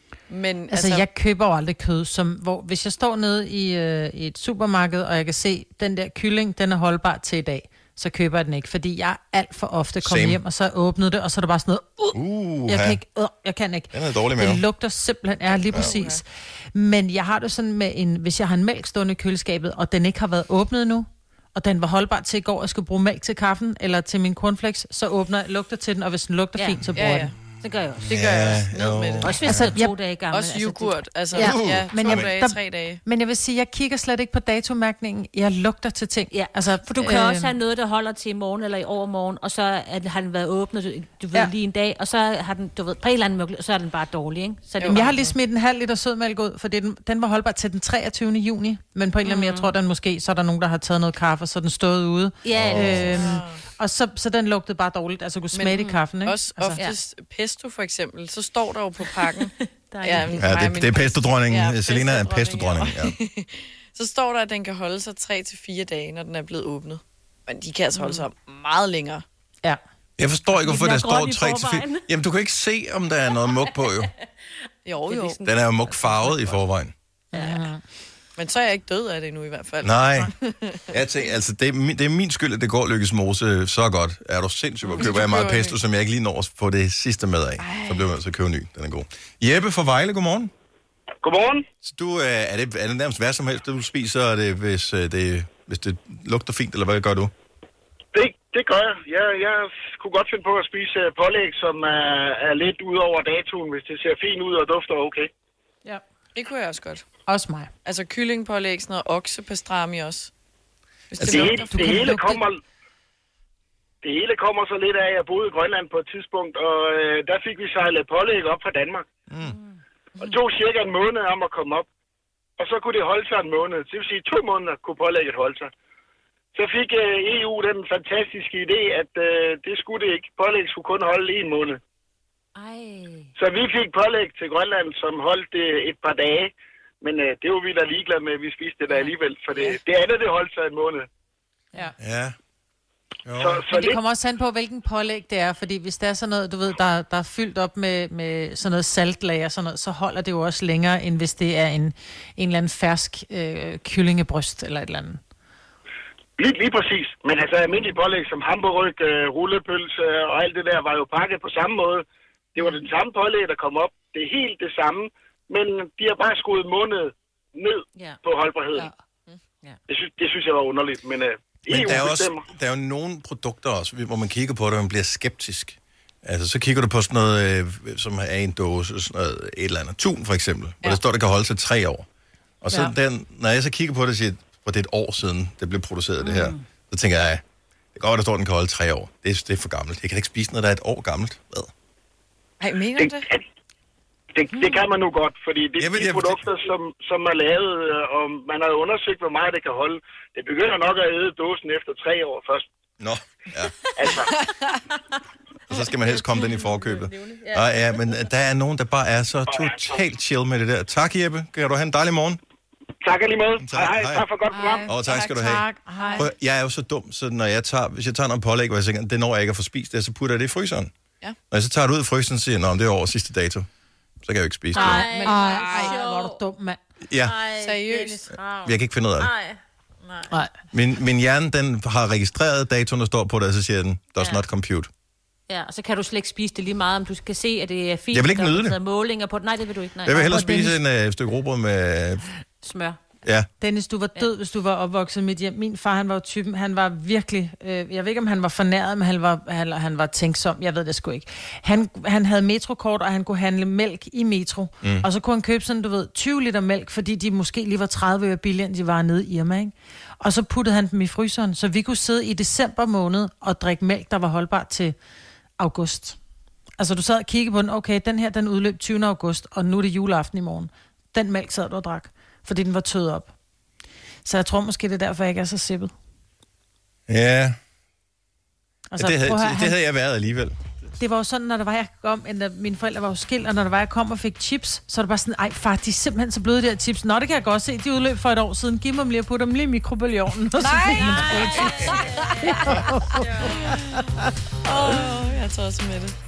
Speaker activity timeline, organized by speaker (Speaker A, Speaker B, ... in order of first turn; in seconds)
Speaker A: 0.3-1.1, 15.7-16.1, 26.9-27.3, 28.1-29.6, 30.3-33.0, 44.8-45.1, 53.0-53.6, 55.5-69.2, 74.8-75.4, 78.4-80.8, 84.9-85.8, 87.6-88.1, 106.3-107.0, 107.8-110.3, 111.1-111.8, 139.1-139.8, 192.6-193.3, 214.5-215.8, 224.8-226.0, 227.6-228.2, 230.0-230.3, 290.6-294.0, 294.6-296.1
Speaker B: 0.7-12.2, 12.7-16.2, 16.7-27.3, 29.5-29.9, 31.4-37.5, 44.9-56.8, 77.3-77.8, 107.3-107.7, 111.3-112.5, 143.7-155.2, 215.4-216.3, 224.8-226.8, 240.3-240.7, 243.6-264.9, 265.6-266.1, 266.8-273.3, 274.2-275.9, 278.9-279.8, 281.0-294.2
Speaker C: 10.0-10.4, 12.1-13.0, 13.9-14.6, 28.1-29.7, 31.4-32.3, 52.5-53.1, 60.4-63.1, 70.2-74.1, 75.4-76.9, 79.8-80.3, 80.9-90.5, 91.8-97.3, 111.2-111.4, 119.3-119.5, 142.0-142.3, 143.2-143.6, 171.7-182.1, 182.6-187.4, 187.9-191.7, 195.8-196.4, 203.0-203.7, 205.7-212.4, 213.6-214.3, 214.9-215.6, 216.2-220.9, 221.5-223.7, 224.2-225.0, 227.0-227.3, 228.6-229.3, 230.7-234.9, 238.1-238.8, 240.1-242.2, 277.1-277.6, 279.0-280.6
Speaker D: 26.5-27.0, 27.6-28.5, 29.2-31.5, 36.3-45.2, 49.2-49.7, 52.4-53.4, 59.9-60.5, 70.5-72.0, 75.0-76.6, 77.3-77.7, 132.5-133.3, 206.8-207.9, 215.9-216.2, 224.7-226.4, 227.2-229.6, 234.2-234.4, 235.5-240.7, 242.6-243.0, 290.9-293.6
Speaker E: 91.2-91.6, 98.1-105.3, 111.2-112.6, 114.0-119.0, 120.2-121.9, 122.6-125.7, 126.5-131.8, 133.4-141.1, 143.4-144.0, 156.4-168.9, 169.9-172.5, 193.0-193.4, 194.3-202.7, 204.0-204.3, 209.5-210.0, 213.0-214.9